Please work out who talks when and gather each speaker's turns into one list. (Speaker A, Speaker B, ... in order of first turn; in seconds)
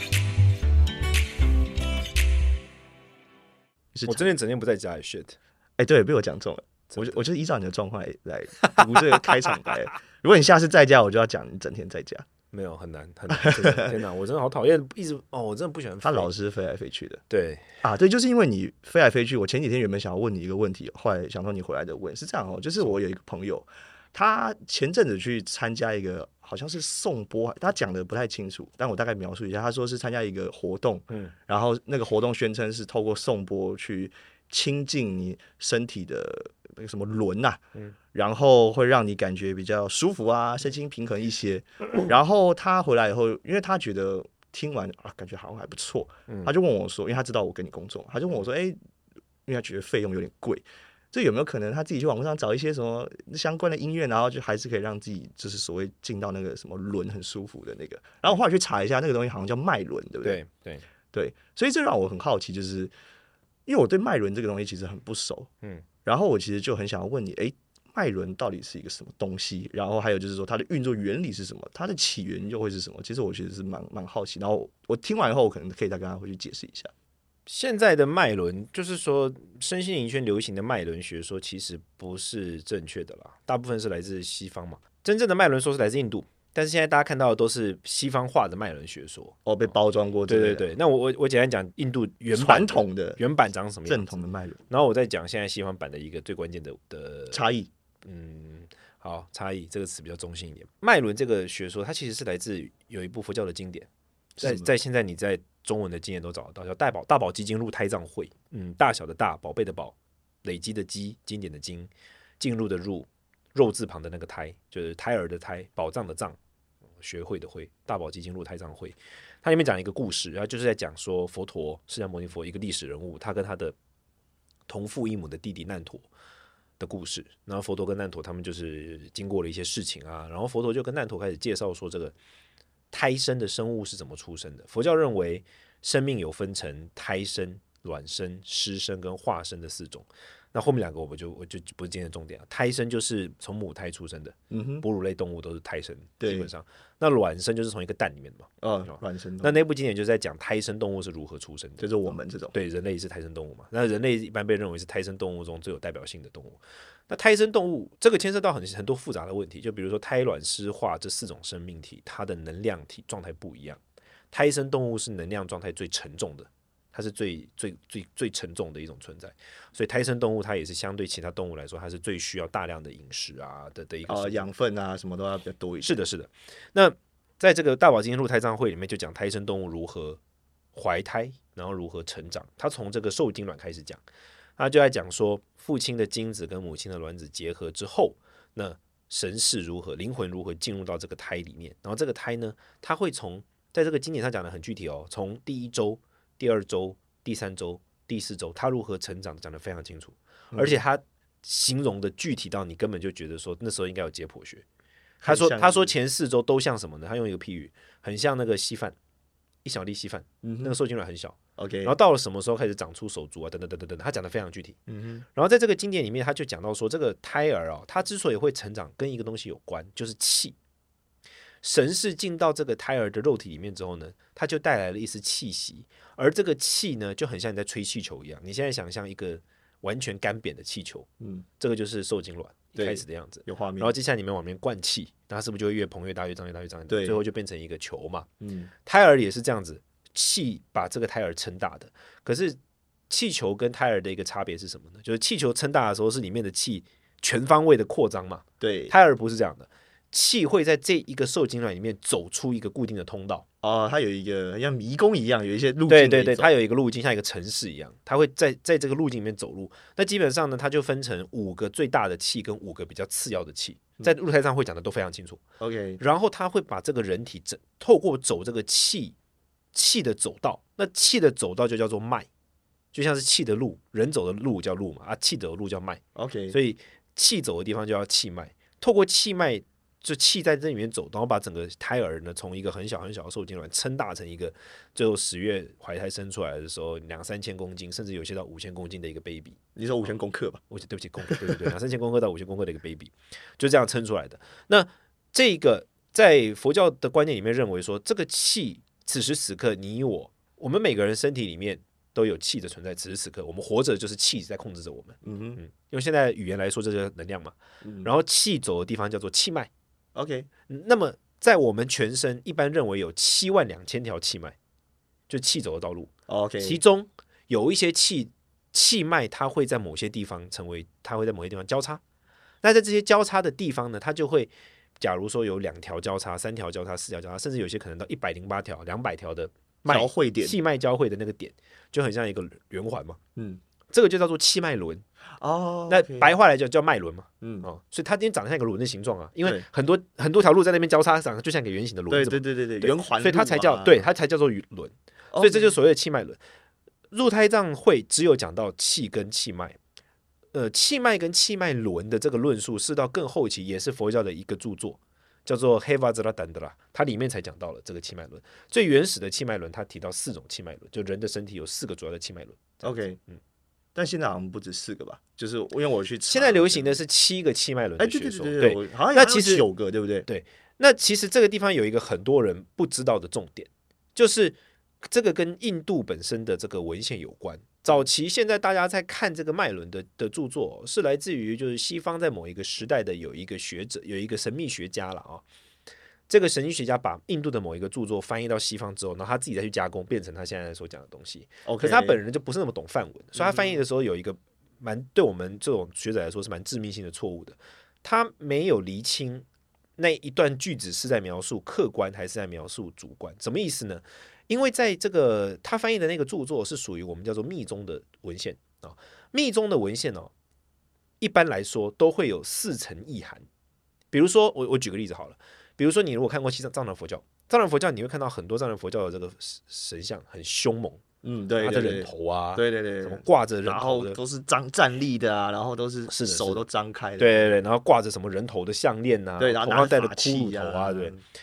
Speaker A: 4.0-4.3, 5.8-12.3, 13.3-13.9, 16.0-17.2, 17.8-37.6, 38.1-48.8, 49.5-60.4, 61.1-62.9, 63.7-65.5, 66.0-76.9, 89.5-90.7, 92.3-93.2, 93.9-94.6, 97.3-97.7, 104.4-104.7, 144.5-144.8, 146.2-146.5, 148.6-149.6, 151.8-152.6, 174.1-175.9, 200.5-200.8, 205.2-205.9, 210.4-210.8, 211.6-211.9, 214.9-215.2, 231.2-231.4, 232.8-233.9, 236.9-237.2, 238.4-238.7, 248.6-248.9, 253.6-256.5, 265.6-266.0, 276.1-276.6, 289.8-290.6, 291.3-291.7, 305.2-305.6, 307.8-308.1, 310.1-310.5, 316.3-316.8, 329.9-330.6, 333.4-333.6, 335.4-336.3, 337.4-337.7, 342.1-344.1, 345.3-345.7, 362.8-363.2, 363.9-367.0, 368.0-370.3, 391.6-392.2, 393.4-393.8, 421.2-427.6, 429.4-431.2
Speaker B: 4.1-5.4, 6.9-7.2, 8.7-9.2, 12.5-16.3, 17.3-17.8, 46.3-46.5, 60.2-60.9, 77.5-89.4, 90.3-94.2, 94.7-97.4, 98.0-103.9, 104.4-116.4, 117.0-123.8, 124.7-126.1, 126.8-132.2, 132.9-163.8, 164.3-174.5, 175.8-180.2, 180.8-184.0, 184.6-204.7, 205.3-209.0, 209.7-214.8, 215.3-220.6, 221.6-231.1, 231.6-238.3, 238.9-242.6, 243.1-253.4, 255.9-265.4, 266.0-269.1, 269.7-272.3, 272.9-289.6, 290.7-309.7, 310.7-314.6, 315.3-322.0, 322.6-333.2, 333.9-335.0, 335.9-346.4, 347.1-349.8, 350.5-363.4, 366.3-369.7, 370.3-385.4, 386.3-399.5, 400.0-410.3, 411.2-413.5, 414.1-421.0, 421.6-424.2, 426.1-426.6, 427.2-431.2